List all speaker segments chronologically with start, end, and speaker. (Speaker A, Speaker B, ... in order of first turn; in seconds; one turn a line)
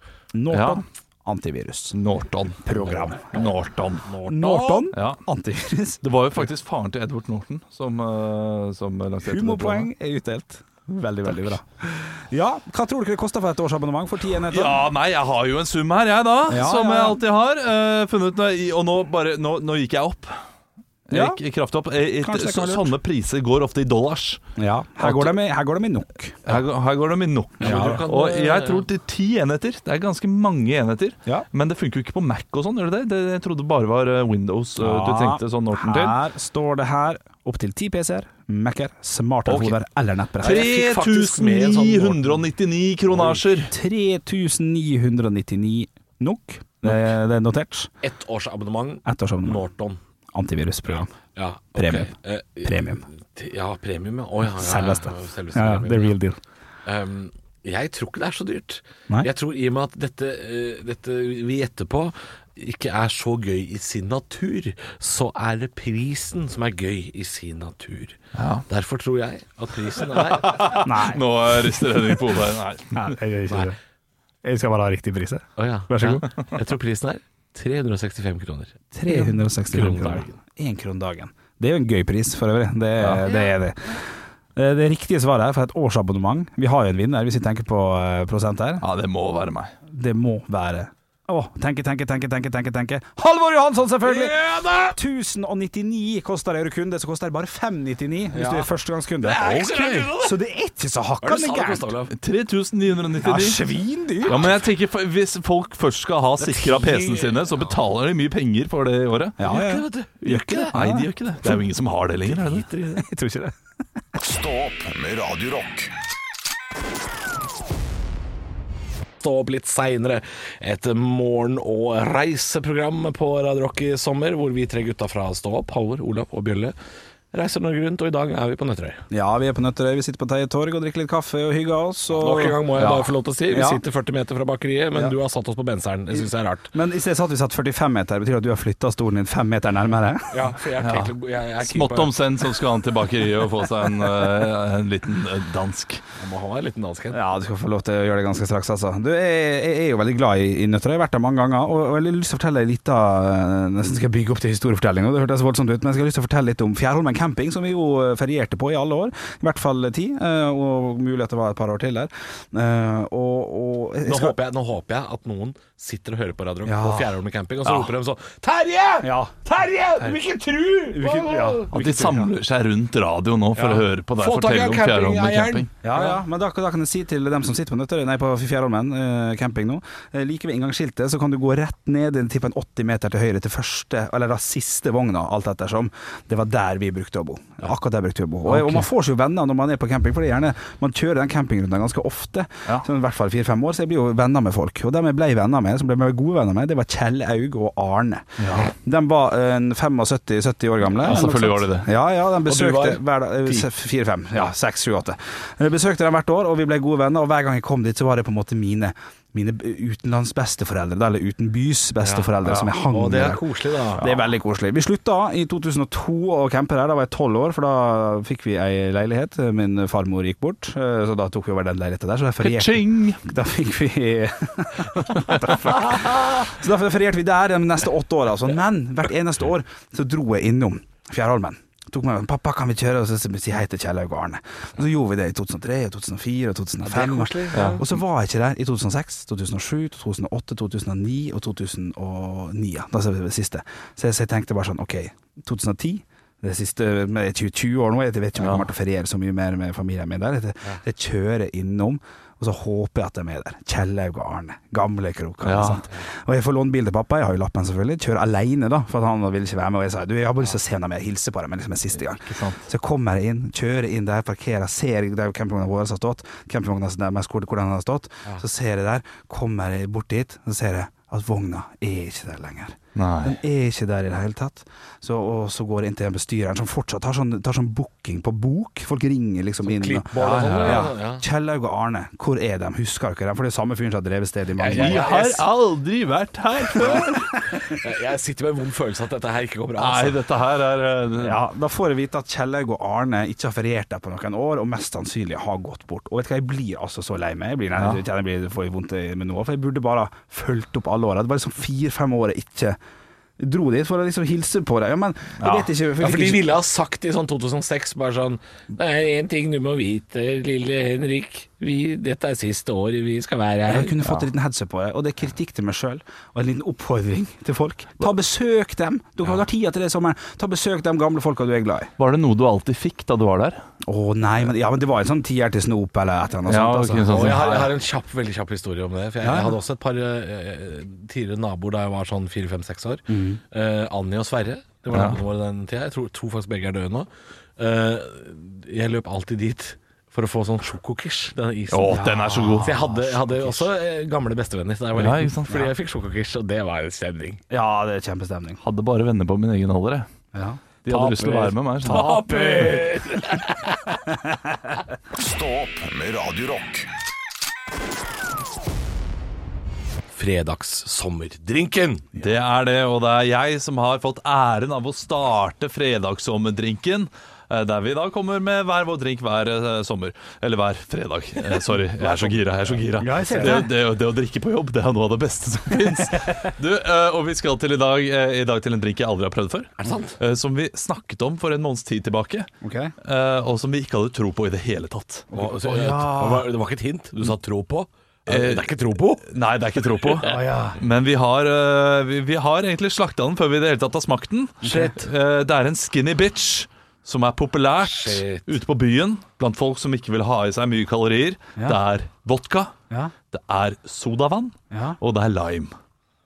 Speaker A: 0.3-2.0
Speaker B: 0.5-0.8
Speaker B: 1.9-4.1
Speaker A: 2.6-3.3
Speaker C: 4.0-4.9
Speaker A: 4.2-6.0
Speaker B: 4.9-5.2
Speaker B: 6.0-9.9
Speaker A: 9.2-14.9
Speaker B: 14.5-20.4
Speaker A: 16.5-17.2
Speaker B: 21.1-24.4
Speaker A: 21.1-21.4
Speaker A: 22.2-22.9
Speaker A: 24.6-26.6
Speaker B: 25.0-25.4
Speaker B: 26.4-36.2
Speaker C: 27.6-28.9
Speaker A: 27.6-28.0
Speaker A: 34.8-40.7
Speaker B: 39.5-39.8
Speaker B: 40.4-43.7
Speaker C: 40.4-42.4
Speaker C: 43.1-43.4
Speaker A: 43.6-47.9
Speaker C: 48.0-50.0
Speaker A: 49.0-49.6
Speaker A: 50.3-51.1
Speaker C: 51.3-56.1
Speaker A: 51.7-52.1
Speaker A: 52.6-53.0
Speaker A: 54.5-56.4
Speaker C: 56.9-70.7
Speaker B: 68.3-68.7
Speaker B: 70.2-73.1
Speaker A: 70.7-72.3
Speaker A: 72.9-73.8
Speaker A: 74.4-76.3
Speaker C: 75.6-80.3
Speaker A: 78.9-88.8
Speaker B: 83.0-83.3
Speaker B: 88.8-89.7
Speaker A: 89.9-94.4
Speaker C: 94.0-95.0
Speaker A: 94.9-99.5
Speaker C: 98.3-98.7
Speaker C: 99.2-100.4
Speaker B: 99.4-100.1
Speaker A: 100.1-101.9
Speaker C: 101.2-102.1
Speaker B: 102.1-103.6
Speaker A: 103.2-104.6
Speaker B: 104.2-109.4
Speaker C: 106.4-107.8
Speaker A: 109.4-111.6
Speaker C: 109.4-110.7
Speaker B: 110.3-112.7
Speaker C: 112.3-113.0
Speaker A: 112.5-113.5
Speaker D: 114.2-115.9
Speaker C: 119.2-126.7
Speaker C: 127.3-129.0
Speaker A: 129.1-133.8
Speaker C: 132.2-136.7
Speaker A: 136.7-140.4
Speaker C: 140.3-142.1
Speaker B: 140.8-146.0
Speaker C: 146.2-147.2
Speaker A: 147.1-164.3
Speaker C: 164.0-172.0
Speaker A: 166.6-167.1
Speaker A: 169.0-169.3
Speaker A: 170.9-172.3
Speaker B: 171.7-175.7
Speaker C: 173.5-176.2
Speaker A: 175.8-285.2
Speaker B: 188.5-188.9
Speaker B: 198.4-198.7
Speaker B: 200.9-201.9
Speaker C: 202.4-203.7
Speaker C: 212.0-214.2
Speaker B: 222.4-223.2
Speaker C: 236.8-237.8
Speaker B: 237.5-237.8
Speaker B: 248.4-248.7
Speaker B: 255.4-255.8
Speaker B: 262.2-262.6
Speaker B: 272.9-273.4
Speaker C: 279.6-281.2
Speaker B: 280.1-280.9
Speaker C: 284.6-285.4
Speaker B: 284.7-287.3
Speaker C: 287.7-290.2
Speaker B: 289.8-291.4
Speaker A: 291.2-302.8
Speaker B: 297.7-298.0
Speaker A: 303.4-306.5
Speaker B: 305.4-305.7
Speaker C: 306.0-314.0
Speaker A: 313.7-321.9
Speaker B: 322.0-323.6
Speaker A: 323.8-327.7
Speaker B: 326.5-327.7
Speaker C: 327.1-342.0
Speaker A: 329.2-329.5
Speaker A: 333.1-333.4
Speaker B: 334.9-335.2
Speaker B: 341.7-342.8
Speaker A: 341.9-343.7
Speaker C: 342.6-347.4
Speaker B: 344.9-345.7
Speaker A: 347.5-348.6
Speaker B: 348.6-350.1
Speaker A: 350.3-350.6
Speaker B: 350.8-352.2
Speaker C: 350.9-354.0
Speaker A: 351.8-353.0
Speaker A: 354.1-354.7
Speaker D: 355.1-356.9
Speaker C: 360.1-362.1
Speaker B: 362.2-382.5
Speaker C: 372.0-373.6
Speaker A: 373.0-373.7
Speaker A: 375.9-376.3
Speaker C: 379.8-380.2
Speaker A: 382.6-382.9
Speaker B: 383.0-385.3
Speaker A: 385.3-386.5
Speaker C: 385.3-389.3
Speaker B: 388.3-388.7
Speaker B: 389.2-402.7
Speaker A: 390.2-390.8
Speaker A: 394.6-395.0
Speaker C: 397.8-398.5
Speaker B: 403.3-405.7
Speaker A: 404.7-405.0